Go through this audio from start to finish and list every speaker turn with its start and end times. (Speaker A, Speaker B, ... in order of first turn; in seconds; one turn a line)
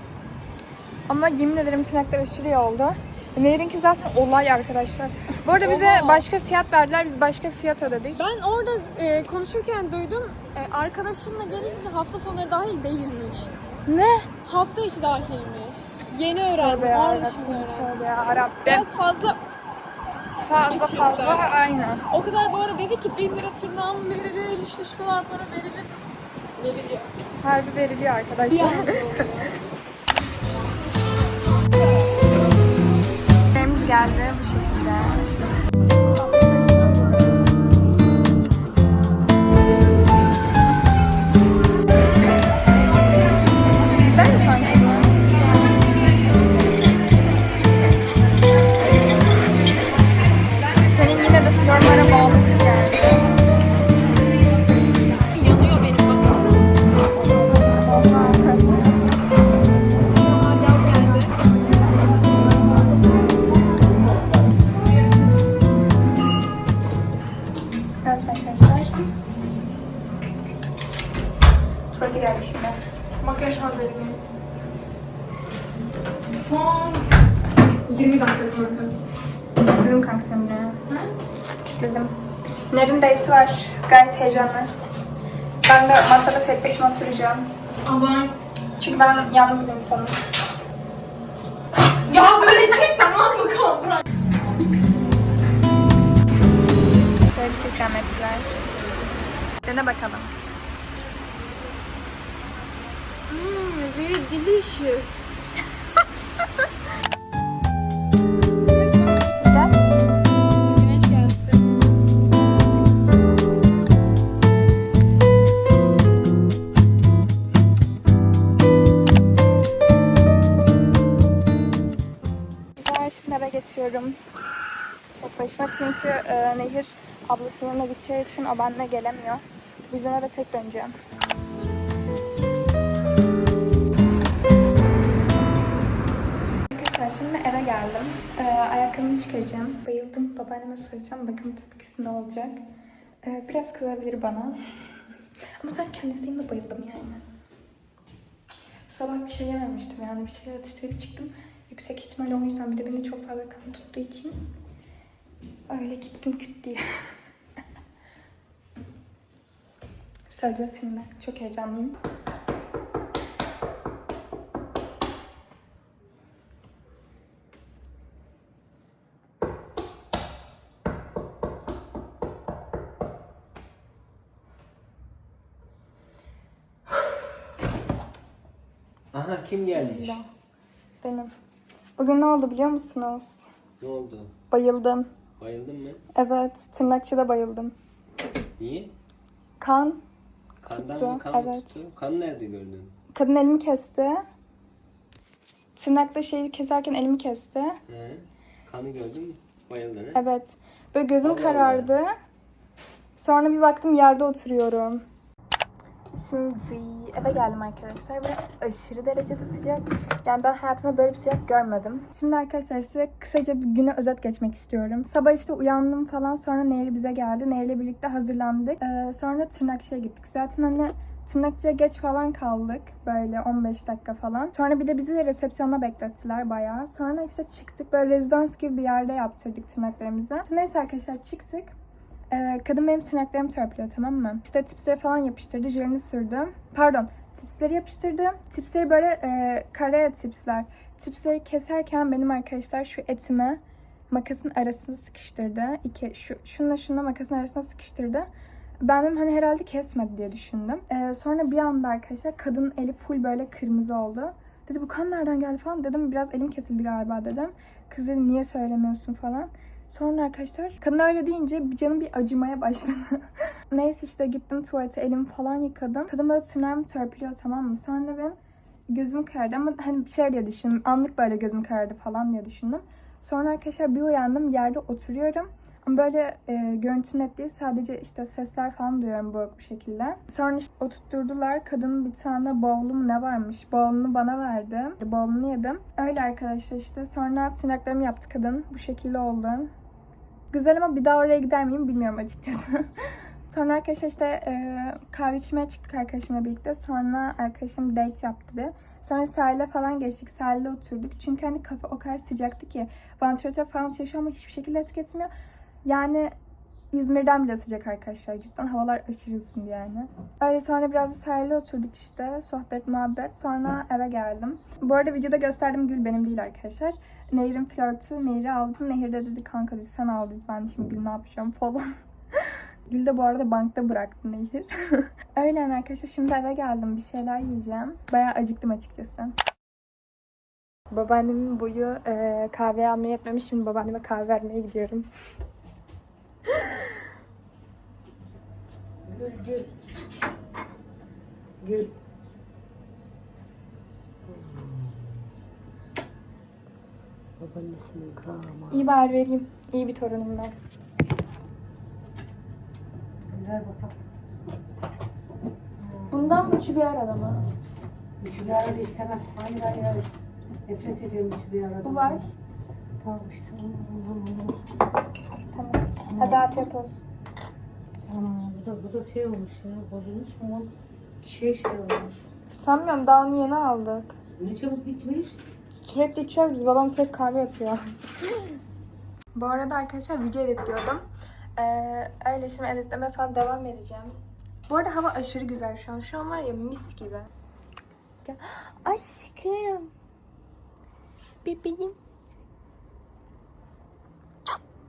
Speaker A: 1.1-8.3
Speaker B: 5.6-6.3
Speaker B: 8.2-13.5
Speaker A: 13.9-14.3
Speaker B: 14.4-17.9
Speaker A: 16.5-18.9
Speaker B: 18.6-19.4
Speaker A: 20.4-22.0
Speaker B: 20.7-21.5
Speaker B: 22.1-25.9
Speaker B: 26.6-27.1
Speaker A: 27.4-29.3
Speaker B: 28.5-29.6
Speaker A: 33.5-35.3
Speaker B: 36.4-36.9
Speaker A: 44.0-45.2
Speaker A: 50.9-53.2
Speaker B: 55.3-56.6
Speaker A: 57.2-59.0
Speaker B: 60.1-62.9
Speaker A: 68.0-69.0
Speaker A: 71.9-72.8
Speaker B: 73.2-74.2
Speaker B: 76.2-77.1
Speaker B: 77.9-78.9
Speaker A: 79.6-80.9
Speaker A: 81.8-82.2
Speaker A: 82.7-84.7
Speaker A: 85.6-87.5
Speaker B: 87.8-88.4
Speaker A: 88.8-90.2
Speaker B: 91.9-94.0
Speaker A: 97.3-98.6
Speaker A: 99.6-100.3
Speaker B: 103.3-105.4
Speaker B: 108.7-109.4
Speaker A: 109.4-109.8
Speaker B: 110.6-111.7
Speaker A: 122.8-124.2
Speaker A: 125.1-130.9
Speaker A: 136.7-142.6
Speaker A: 143.2-144.6
Speaker A: 145.6-147.2
Speaker A: 148.9-154.4
Speaker A: 155.7-157.1
Speaker A: 160.3-162.0
Speaker C: 179.1-180.2
Speaker A: 179.7-180.3
Speaker A: 181.0-181.3
Speaker A: 182.0-183.5
Speaker C: 183.8-184.3
Speaker A: 184.5-185.1
Speaker C: 185.4-186.0
Speaker A: 186.2-187.8
Speaker C: 188.6-188.9
Speaker A: 189.6-190.0
Speaker C: 190.6-192.9
Speaker A: 190.7-191.8
Speaker A: 193.1-194.2
Speaker A: 195.8-197.8
Speaker C: 197.9-200.2
Speaker A: 200.1-202.2
Speaker C: 201.2-201.9
Speaker A: 203.2-205.1
Speaker A: 206.2-231.7
Speaker A: 232.3-248.3
Speaker A: 248.8-268.4
Speaker A: 268.9-289.7
Speaker A: 290.5-305.3
Speaker A: 305.9-306.3
Speaker A: 306.9-329.3
Speaker A: 330.9-335.1
Speaker D: 339.1-339.7
Speaker D: 341.6-341.9
Speaker D: 344.3-345.2
Speaker D: 347.4-348.9
Speaker A: 348.7-350.6
Speaker D: 353.3-354.0
Speaker D: 355.8-356.4
Speaker A: 356.1-357.4
Speaker D: 358.2-360.1
Speaker D: 360.7-362.3
Speaker A: 361.8-362.3
Speaker D: 363.0-364.6
Speaker A: 365.5-367.0
Speaker D: 366.2-366.5
Speaker D: 368.1-372.3
Speaker A: 372.5-374.2
Speaker D: 374.4-375.4
Speaker A: 375.8-378.6
Speaker A: 379.3-387.3
Speaker A: 388.2-389.9
Speaker A: 391.4-392.0